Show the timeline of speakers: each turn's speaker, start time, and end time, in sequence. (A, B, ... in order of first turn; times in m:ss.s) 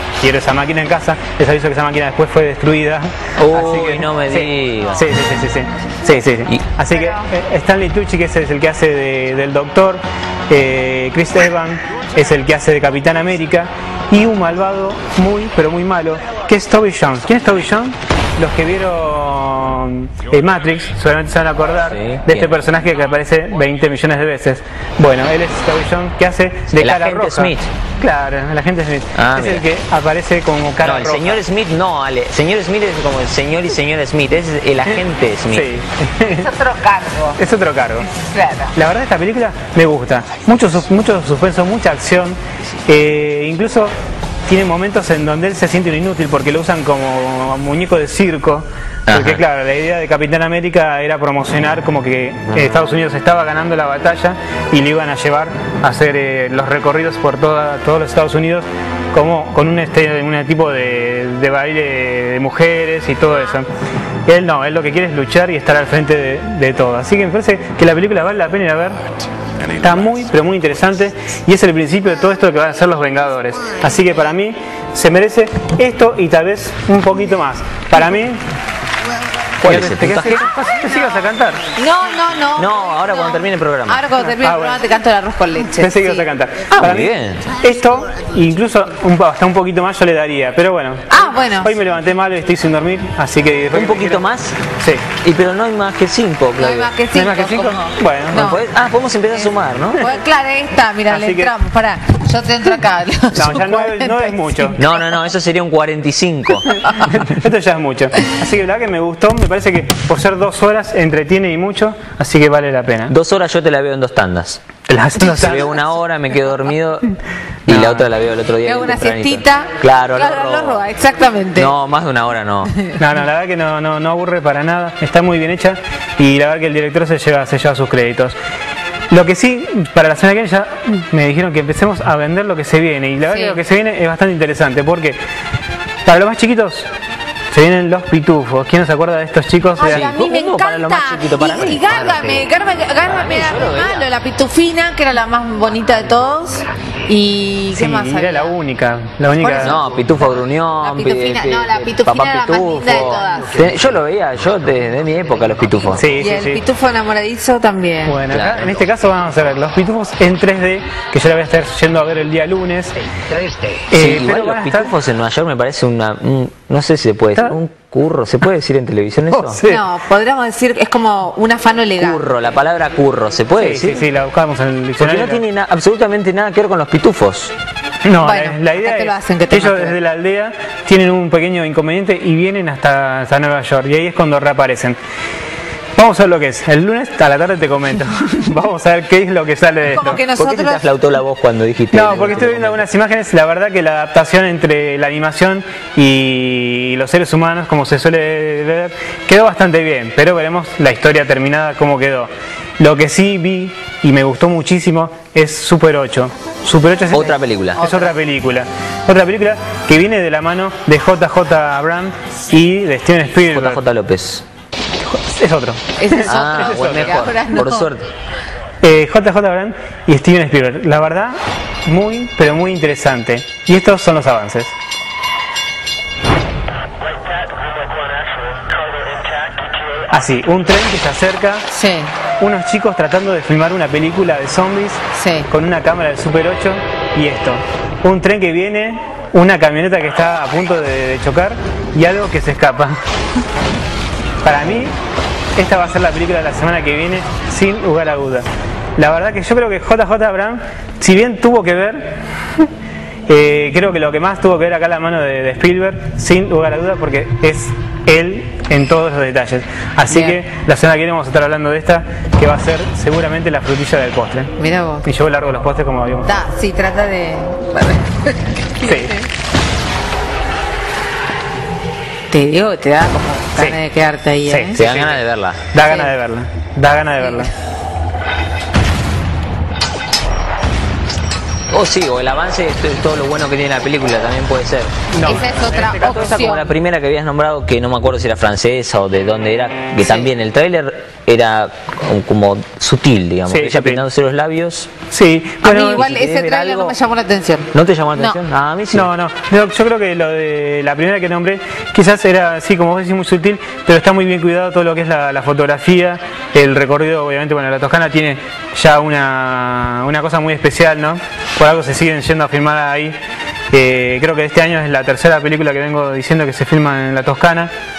0:00.2-0:31.4 A
0:03.4-0:05.0 B
0:06.9-0:07.3 C
0:21.9-0:22.6 B
0:26.7-0:27.7 B
0:29.2-0:29.6 B
0:30.8-0:35.7 B
0:34.8-0:36.5 A
0:36.3-0:37.4 C
0:37.4-0:38.1 A
0:38.1-0:38.7 C
0:38.7-0:43.9 A
0:44.5-1:03.7 A
0:49.1-0:49.4 B
1:04.3-1:09.0 A
1:09.8-1:18.4 A
1:19.6-1:20.5 B
1:19.6-1:21.7 A
1:21.7-1:26.3 C
1:22.6-1:24.1 B
1:24.4-1:24.8 A
1:25.8-1:34.2 A
1:26.7-1:27.5 B
1:31.1-1:31.8 C
1:33.7-1:34.6 B
1:34.8-1:35.1 A
1:35.2-1:36.9 B
1:36.6-1:38.6 C
1:37.1-1:38.4 A
1:38.3-1:40.0 B
1:39.3-1:44.8 C
1:41.1-1:41.5 A
1:43.3-1:44.8 A
1:44.8-1:46.8 B
1:46.8-1:47.1 C
1:46.8-1:53.1 A
1:53.1-1:54.6 B
1:54.9-1:55.8 A
1:55.2-2:00.8 B
1:57.7-1:58.1 A
1:58.6-2:01.7 C
2:01.5-2:02.7 B
2:03.0-2:08.4 A
2:09.1-2:15.2 A
2:13.3-2:13.6 C
2:16.0-2:16.9 A
2:17.5-2:20.1 A
2:19.8-2:28.5 C
2:19.9-2:22.4 B
2:23.1-2:24.1 B
2:27.7-2:29.8 A
2:29.4-2:29.9 C
2:29.6-2:36.1 B
2:30.8-2:33.7 C
2:36.0-2:36.6 A
2:36.2-2:38.2 C
2:38.0-2:42.9 A
2:38.3-2:38.7 B
2:43.9-2:44.9 A
2:43.9-2:49.6 B
2:49.3-2:49.8 A
2:49.6-2:52.2 C
2:52.0-2:54.0 B
2:53.6-2:55.4 A
2:55.0-2:57.5 B
2:58.0-3:05.0 A
2:58.2-3:00.0 C
3:06.0-3:10.2 A
3:09.9-3:10.8 C
3:10.4-3:12.8 B
3:11.9-3:33.8 A
3:27.1-3:27.8 B
3:27.8-3:28.1 C
3:33.5-3:34.4 B
3:35.0-3:37.1 A
3:36.0-3:37.9 C
3:36.2-3:38.1 B
3:38.8-3:44.7 A
3:50.1-3:51.6 A
3:51.7-3:52.1 C
3:52.4-4:03.0 A
3:55.1-3:55.5 C
4:04.4-4:05.0 A
4:05.6-4:12.2 A
4:13.3-4:24.5 A
4:20.1-4:20.4 C
4:24.6-4:25.1 C
4:25.0-4:26.3 A
4:26.2-4:29.3 C
4:28.8-4:29.1 A
4:32.3-4:34.8 C
4:34.4-4:37.5 A
4:34.8-4:35.6 B
4:35.8-4:36.1 C
4:37.2-4:37.5 C
4:41.7-4:44.9 B
4:45.1-4:46.2 A
4:45.2-4:46.7 C
4:45.9-4:54.9 B
4:50.0-4:50.3 C
4:53.5-4:54.0 A
4:55.1-4:56.1 A
4:55.6-4:58.4 C
4:55.9-4:56.9 B
4:57.7-4:59.1 B
4:58.9-5:13.2 A
5:13.7-5:17.7 A